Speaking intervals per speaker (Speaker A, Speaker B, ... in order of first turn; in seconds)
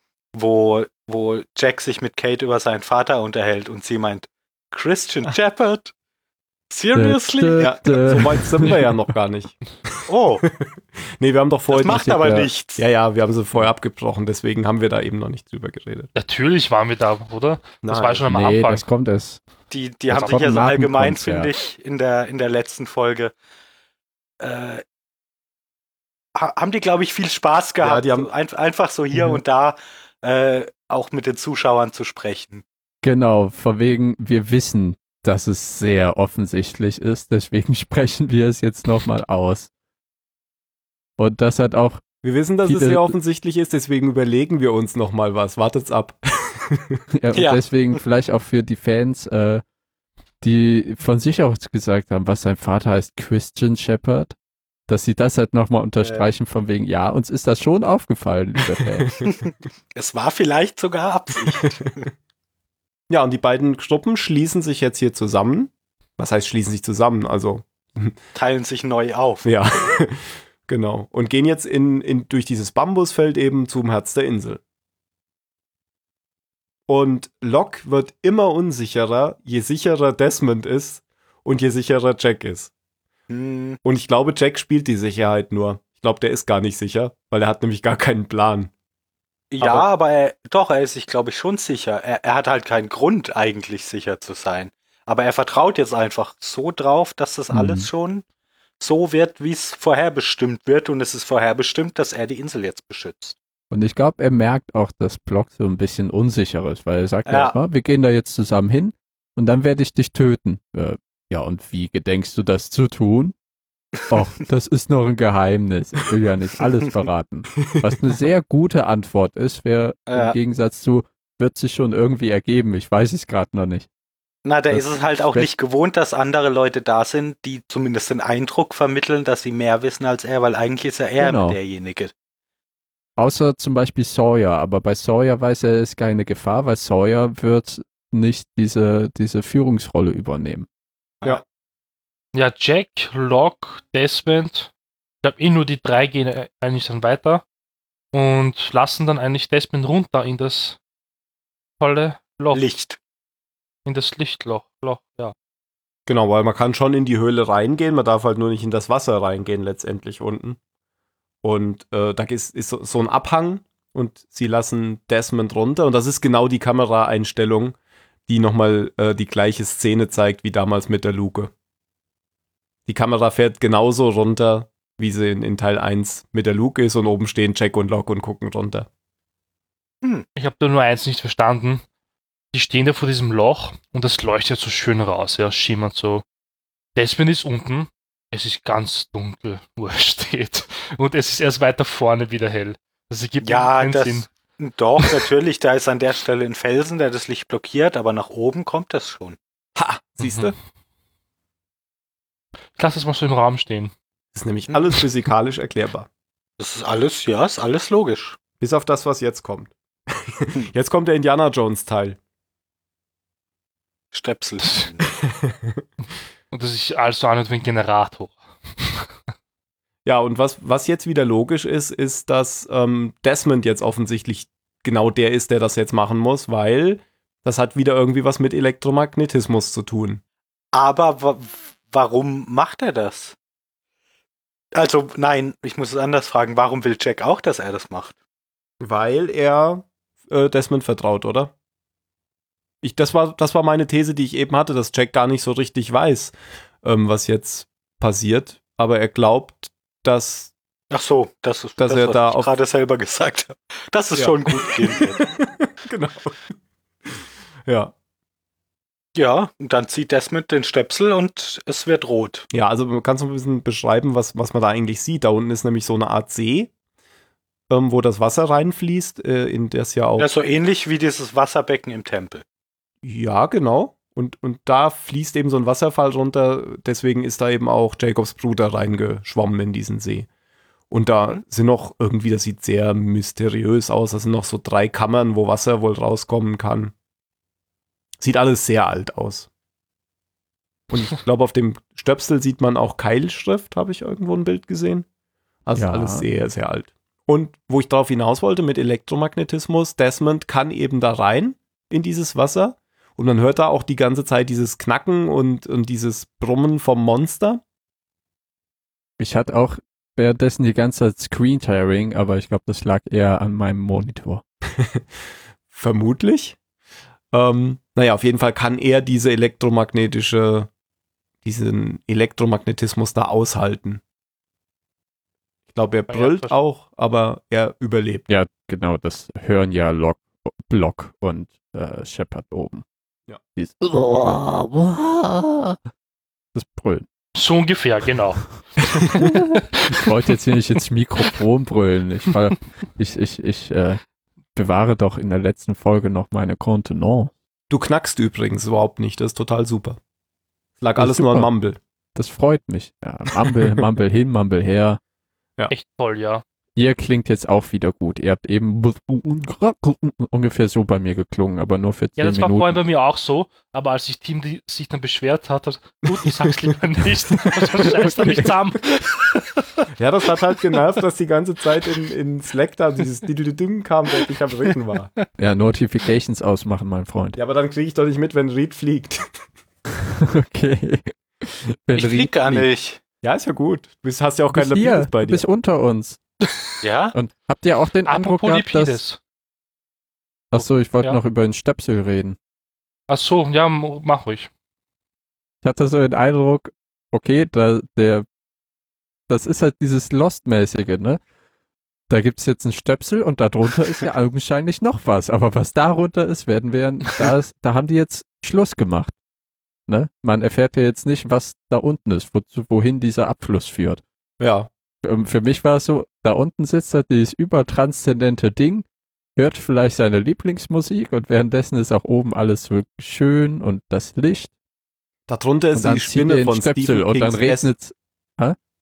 Speaker A: 0.3-5.9, 6.7-7.8, 10.1-10.4, 11.7-12.8, 19.7-23.3, 24.4-24.8, 26.4-32.6, 47.3-47.6, 56.0-56.3, 59.3-62.0, 68.3-69.5, 83.3-83.8, 89.5-98.2, 98.8-103.4, 107.3-107.5, 120.1-120.4, 124.4-132.1, 152.5-153.0, 193.4-199.4, 206.6-208.4, 214.1-215.0, 230.7-233.3, 234.7-238.1, 250.9-255.2, 259.1-262.5, 270.2-272.4, 381.9-383.0, 386.8-387.1
Speaker B: 6.9-8.9, 11.9-12.5, 18.2-19.4, 20.1-21.5, 33.0-39.7, 41.2-42.0, 42.6-43.1, 47.1-49.6, 50.4-54.3, 54.9-59.1, 97.5-97.9, 103.7-113.3, 114.1-123.9, 124.7-125.5, 131.2-131.6, 133.2-140.7, 295.7-296.2, 309.2-314.4, 328.3-332.8, 333.6-335.8, 336.5-337.1, 339.1-344.0, 344.5-347.3, 350.9-351.5, 352.1-355.0, 356.8-362.8, 368.0-368.6, 375.4-377.4, 380.0-382.7, 384.5-386.2, 387.1-389.0, 390.5-392.4, 395.6-398.2, 399.3-401.2, 402.1-409.1, 409.9-414.0, 415.0-424.5, 425.7-428.6
Speaker C: 7.6-9.6, 10.4-12.2, 12.8-16.1, 17.8-18.2, 27.8-28.3, 42.2-47.0, 59.0-59.3, 63.1-68.2, 69.4-74.6, 76.9-82.7, 83.8-88.7, 89.6-89.9, 156.1-160.6, 161.4-167.8, 168.3-171.5, 172.9-178.9, 199.8-200.5, 204.3-206.1, 208.6-212.2, 215.2-215.8, 220.0-230.2, 238.8-241.5, 242.8-250.5, 251.8-252.5, 254.1-256.5, 257.1-257.9, 262.5-266.7, 267.7-270.3, 273.0-280.3, 280.9-286.9, 288.2-289.5, 290.9-295.1, 295.6-307.6, 314.8-315.0, 315.7-316.6, 317.3-320.7, 321.4-324.0, 325.7-328.3, 347.7-350.0, 350.8-351.8, 367.8-368.5, 370.0-375.1, 377.4-379.3, 383.2-385.4, 414.4-414.7, 425.3-427.7
Speaker D: 16.1-18.9, 142.3-144.7, 145.2-147.4, 148.1-150.8, 151.8-152.7, 153.8-155.3, 180.3-181.8, 182.5-186.2, 186.9-194.3, 200.2-200.5, 202.8-203.9, 216.5-219.1, 326.1-326.6, 337.3-340.1, 355.7-356.4, 362.2-369.6, 388.1-389.2, 393.1-394.5